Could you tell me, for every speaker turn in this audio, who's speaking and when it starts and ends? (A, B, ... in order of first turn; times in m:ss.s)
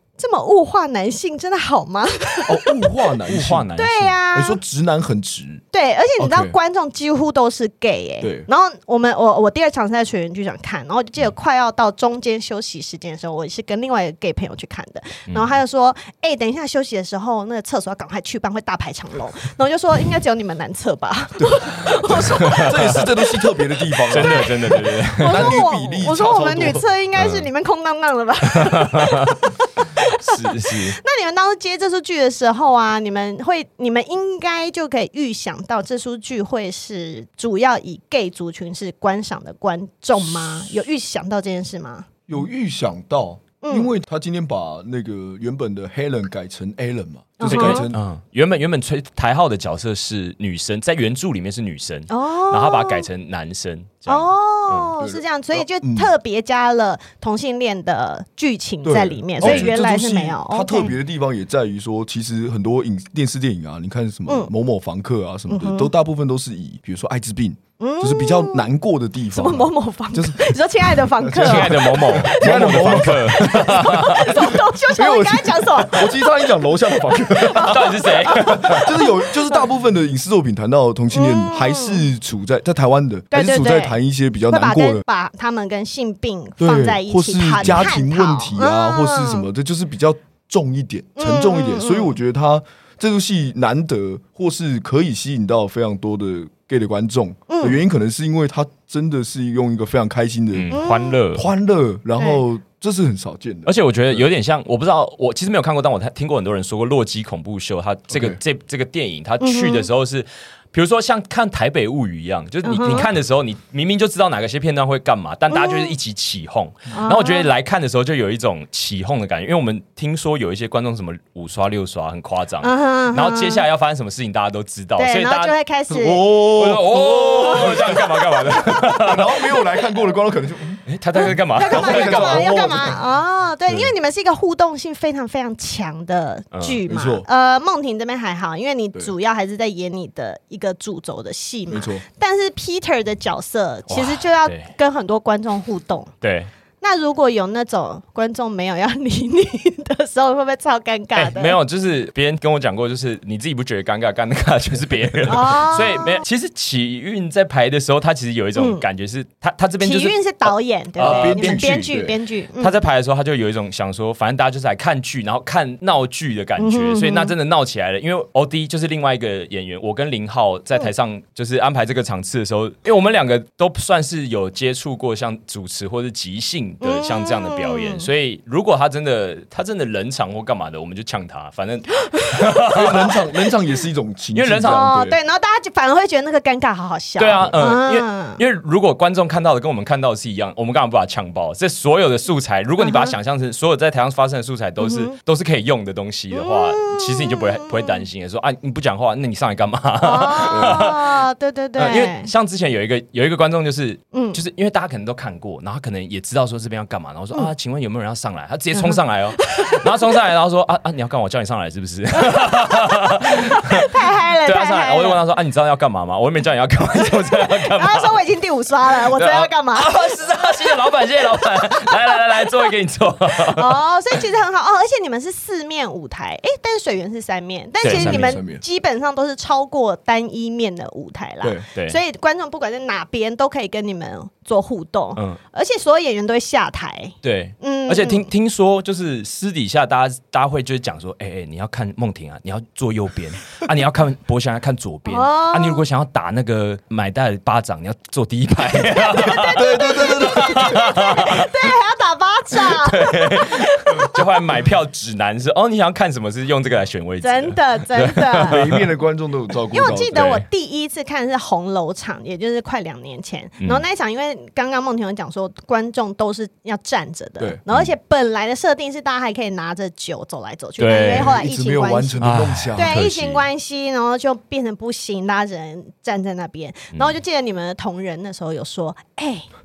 0:00.2-0:02.6 A
0:02.4-0:03.7 B
0:03.2-0:04.2 C
0:03.8-0:04.6 A
0:04.3-0:05.6 B
0:05.7-0:23.3 A
0:06.2-0:06.5 B
0:08.2-0:08.5 B
0:15.3-0:15.6 C
0:21.4-0:24.5 B
0:22.5-0:23.0 C
0:24.1-0:29.4 A
0:24.1-0:25.6 C
0:25.2-0:26.8 B
0:27.2-0:27.5 C
0:28.6-0:29.4 C
0:30.0-0:42.1 A
0:30.2-0:31.0 C
0:42.3-0:48.0 B
0:43.6-0:43.9 A
0:47.4-0:47.9 A
0:47.4-0:54.9 C
0:52.1-0:53.1 A
0:54.1-1:00.9 A
0:55.0-0:56.1 B
0:58.8-1:25.0 B
0:59.4-0:59.7 C
1:05.5-1:05.9 A
1:07.8-1:08.7 A
1:09.3-1:19.6 A
1:11.4-1:14.3 C
1:17.6-1:18.9 C
1:21.1-1:22.1 A
1:23.3-1:24.0 A
1:24.5-1:29.5 A
1:26.6-1:40.8 B
1:31.2-1:32.1 A
1:37.5-1:37.8 A
1:40.5-1:41.4 C
1:40.7-1:41.2 A
1:41.3-1:44.2 B
1:43.6-2:05.5 C
1:48.1-1:48.4 B
1:49.4-1:49.9 A
1:52.6-1:53.1 A
1:55.5-1:56.0 A
1:56.9-1:57.5 A
2:02.6-2:03.6 A
2:05.0-2:06.2 A
2:05.9-2:10.8 B
2:06.2-2:09.3 C
2:10.9-2:12.8 C
2:11.1-2:26.1 A
2:11.6-2:13.0 B
2:13.7-2:13.9 B
2:16.5-2:16.8 C
2:16.8-2:17.2 B
2:21.7-2:22.0 B
2:23.9-2:24.7 C
2:26.2-2:26.5 C
2:26.8-2:31.6 A
2:31.1-2:41.7 C
2:35.3-2:36.2 A
2:38.6-2:38.8 A
2:39.8-2:42.8 A
2:41.0-2:42.1 B
2:42.6-3:03.2 C
2:46.6-2:47.3 A
2:56.8-2:58.1 A
3:02.7-3:05.2 B
3:04.3-3:04.8 C
3:04.6-3:08.4 A
3:07.2-3:21.2 C
3:12.8-3:13.1 A
3:14.8-3:15.1 A
3:16.3-3:18.0 A
3:20.0-3:22.3 A
3:20.5-3:20.8 B
3:21.8-3:38.2 C
3:24.1-3:24.4 A
3:28.7-3:29.9 A
3:32.2-3:35.2 A
3:37.0-3:40.0 A
3:39.0-3:43.8 C
3:41.8-3:42.6 A
3:43.5-3:58.3 A
3:47.8-3:48.4 C
3:47.9-3:48.6 B
3:57.2-4:11.5 C
4:05.1-4:05.8 A
4:08.9-4:14.2 A
4:09.5-4:11.0 B
4:12.6-4:18.9 C
4:17.2-4:18.6 A
4:18.4-4:20.3 B
4:19.7-4:39.5 A
4:20.1-4:20.4 C
4:30.8-4:31.4 C
4:31.1-4:33.0 B
4:32.2-4:33.4 C